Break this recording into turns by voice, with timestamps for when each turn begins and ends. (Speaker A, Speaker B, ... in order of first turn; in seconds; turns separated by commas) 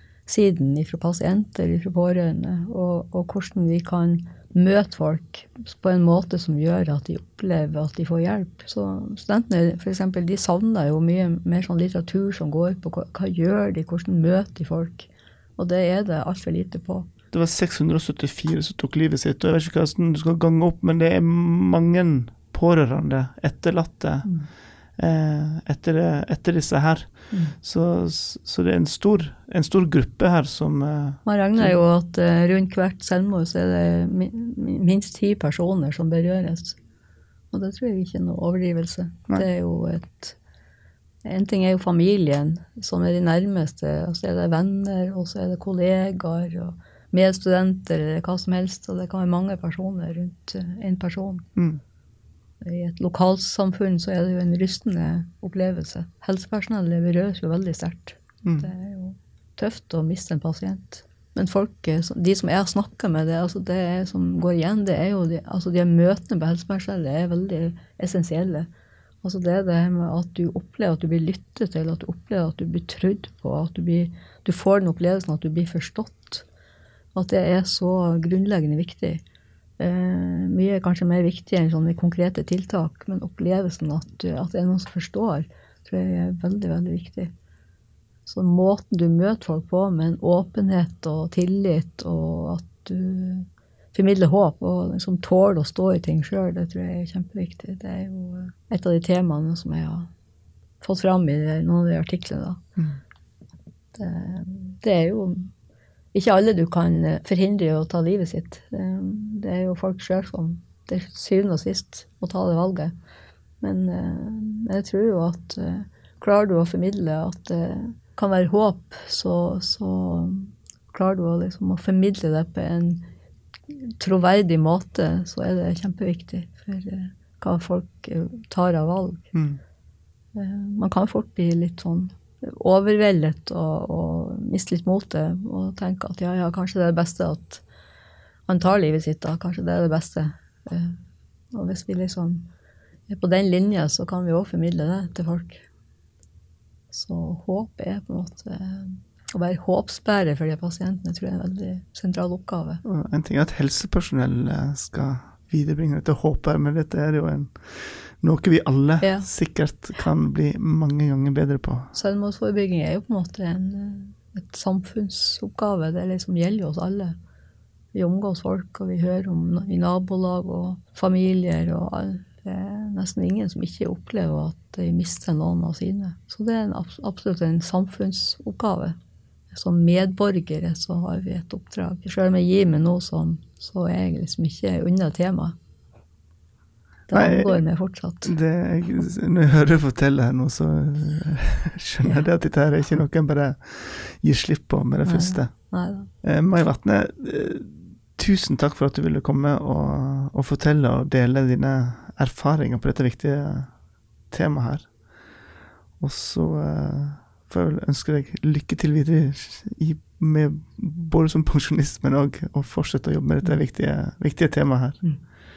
Speaker A: 0.3-17.1, Speaker B: 17.3-31.8, Speaker A: 24.2-24.5, Speaker A: 27.3-27.6, Speaker A: 31.2-36.8, Speaker A: 37.5-40.4, Speaker A: 41.2-51.5, Speaker B: 51.6-51.8, Speaker A: 52.6-68.7, Speaker B: 58.4-58.7, Speaker A: 69.2-76.5, Speaker A: 77.2-79.2, Speaker A: 79.8-87.3, Speaker A: 88.3-100.1, Speaker A: 100.8-102.6, Speaker A: 104.0-105.5, Speaker A: 106.1-112.9, Speaker A: 113.6-123.1, Speaker A: 123.7-129.3, Speaker B: 129.3-129.6, Speaker A: 130.3-137.6, Speaker A: 138.5-141.0, Speaker A: 141.5-142.5, Speaker A: 143.1-145.7, Speaker A: 146.9-152.8, Speaker B: 152.8-161.9, Speaker A: 159.0-159.3, Speaker A: 161.9-167.2, Speaker A: 167.9-179.0, Speaker A: 179.5-185.6, Speaker A: 187.1-188.3, Speaker B: 187.1-187.6, Speaker B: 188.2-203.8, Speaker A: 195.0-196.1, Speaker B: 204.3-204.9, Speaker B: 206.0-215.2